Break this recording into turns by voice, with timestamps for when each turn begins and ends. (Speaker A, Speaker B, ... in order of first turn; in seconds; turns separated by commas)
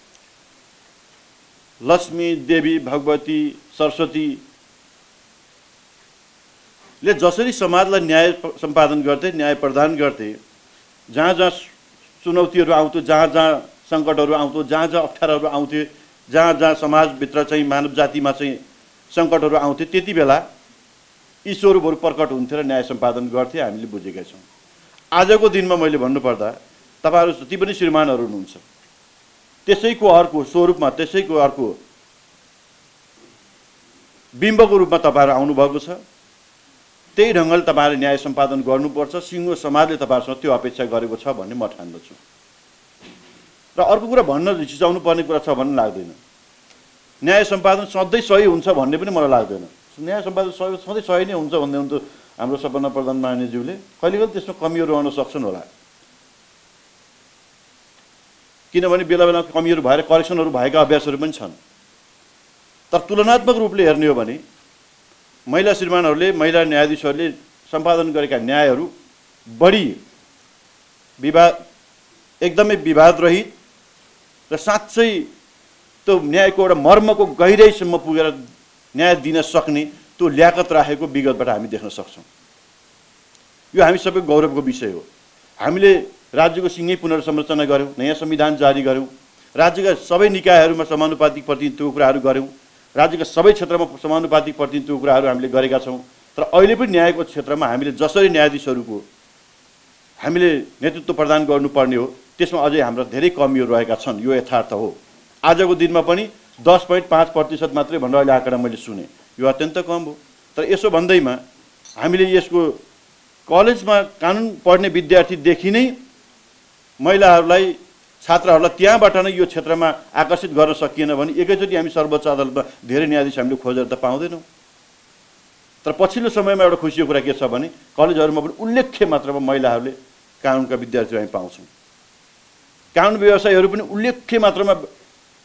Speaker A: 1.8-4.4, Speaker A: 7.0-10.4, Speaker A: 11.1-18.6, Speaker A: 19.1-20.4, Speaker A: 21.4-24.4, Speaker A: 25.1-28.6, Speaker A: 29.6-31.8, Speaker A: 34.4-36.0, Speaker A: 37.1-42.2, Speaker A: 43.8-46.2, Speaker A: 47.2-55.7, Speaker A: 58.7-61.6, Speaker A: 62.9-64.4, Speaker A: 65.5-68.9, Speaker A: 69.5-70.0, Speaker A: 71.2-71.6, Speaker A: 72.4-73.5, Speaker A: 74.5-75.3, Speaker A: 76.0-78.4, Speaker A: 78.9-82.2, Speaker A: 83.7-85.0, Speaker A: 85.6-99.0, Speaker A: 100.2-111.4, Speaker A: 112.0-112.8, Speaker A: 113.5-115.9, Speaker A: 117.0-124.4, Speaker A: 125.8-131.7, Speaker A: 132.9-134.9